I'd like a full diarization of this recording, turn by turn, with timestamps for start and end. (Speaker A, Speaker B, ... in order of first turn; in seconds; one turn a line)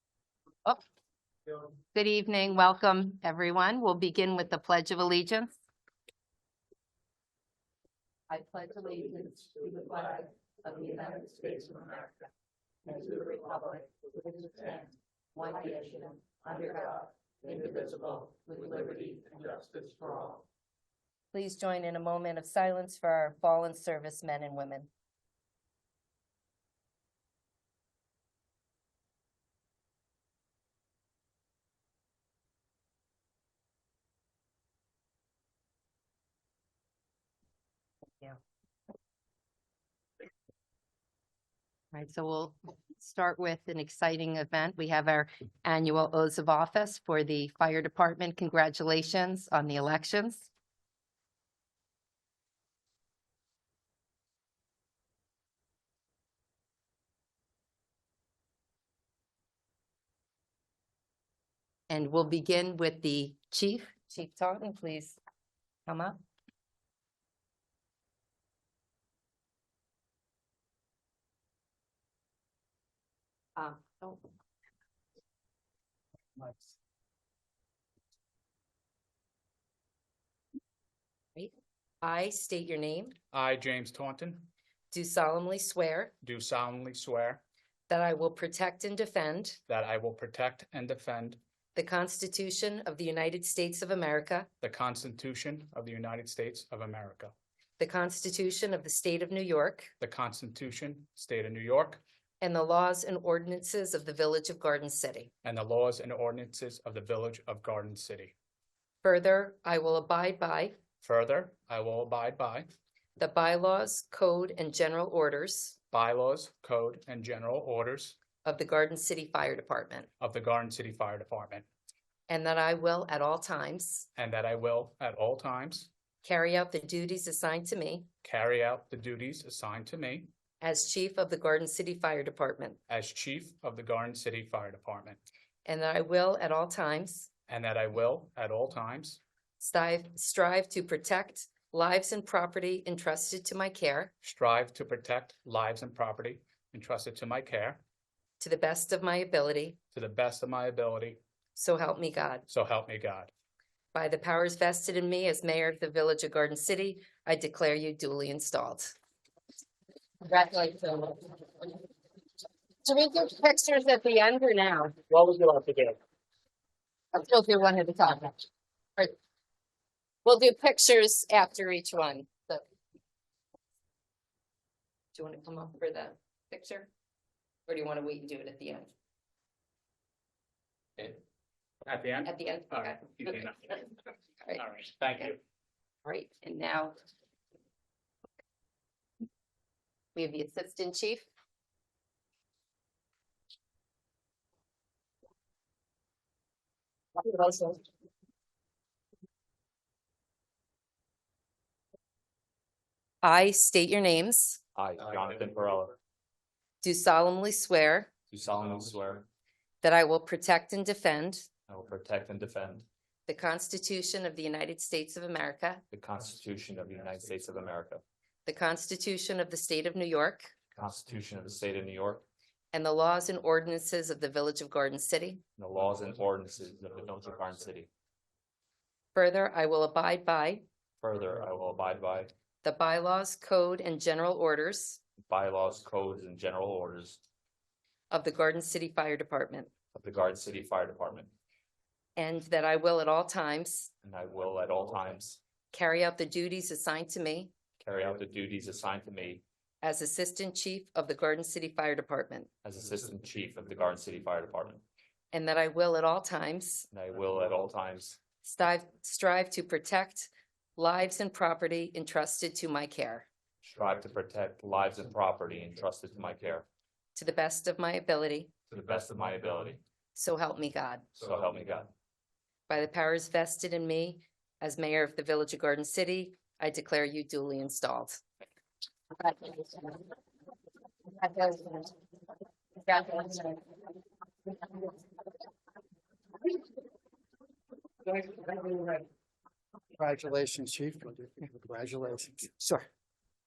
Speaker A: 1.9-5.5
Speaker A: 8.3-12.2
Speaker A: 12.8-20.4
Speaker A: 21.3-24.9
Speaker A: 41.9-50.5
Speaker A: 61.9-65.2
Speaker A: 65.9-66.2
Speaker A: 73.5-74.2
Speaker A: 81.3-83.1
Speaker B: 83.3-84.5
Speaker A: 84.9-86.1
Speaker B: 86.2-87.4
Speaker A: 87.9-89.6
Speaker B: 89.7-91.4
Speaker A: 91.7-94.5
Speaker B: 94.6-97.3
Speaker A: 97.8-99.9
Speaker B: 100.0-102.0
Speaker A: 102.4-105.3
Speaker B: 105.4-108.3
Speaker A: 109.0-110.8
Speaker B: 111.0-112.7
Speaker A: 113.2-115.8
Speaker B: 115.9-118.2
Speaker A: 118.4-120.1
Speaker B: 120.2-121.7
Speaker A: 122.3-124.1
Speaker B: 124.2-125.9
Speaker A: 126.2-128.1
Speaker B: 128.2-130.3
Speaker A: 130.6-132.8
Speaker B: 132.9-135.2
Speaker A: 135.7-137.3
Speaker B: 137.5-139.2
Speaker A: 139.6-144.1
Speaker B: 144.2-147.8
Speaker A: 148.4-149.8
Speaker B: 149.9-151.2
Speaker A: 151.5-152.4
Speaker B: 152.5-153.3
Speaker A: 153.9-158.9
Speaker A: 160.2-161.8
Speaker A: 162.8-164.9
Speaker B: 165.1-165.9
Speaker A: 167.1-168.4
Speaker A: 170.2-172.6
Speaker A: 175.1-176.9
Speaker A: 177.7-178.9
Speaker B: 181.8-183.8
Speaker A: 182.2-184.6
Speaker B: 184.6-185.4
Speaker A: 186.0-186.9
Speaker A: 190.1-191.3
Speaker A: 197.2-197.8
Speaker A: 203.2-204.6
Speaker C: 204.8-205.9
Speaker A: 206.8-208.1
Speaker C: 208.3-209.2
Speaker A: 209.8-211.5
Speaker C: 211.7-212.8
Speaker A: 213.3-215.8
Speaker C: 215.9-218.0
Speaker A: 218.4-220.5
Speaker C: 220.7-222.2
Speaker A: 222.7-225.4
Speaker C: 225.6-227.9
Speaker A: 229.1-230.6
Speaker C: 231.0-232.3
Speaker A: 232.6-235.0
Speaker C: 235.2-237.2
Speaker A: 238.1-239.7
Speaker C: 239.9-241.3
Speaker A: 242.2-243.9
Speaker C: 244.0-245.4
Speaker A: 245.7-247.5
Speaker C: 247.8-249.4
Speaker A: 249.8-252.5
Speaker C: 252.6-254.8
Speaker A: 255.3-256.9
Speaker C: 256.9-258.2
Speaker A: 258.4-263.3
Speaker C: 263.6-266.6
Speaker A: 267.1-268.5
Speaker C: 268.7-269.8
Speaker A: 270.1-271.1
Speaker C: 271.1-271.9
Speaker A: 272.7-278.2
Speaker A: 279.1-280.1
Speaker A: 281.1-281.9
Speaker A: 282.8-283.8
Speaker A: 284.5-285.0
Speaker A: 288.1-289.0
Speaker D: 290.0-292.9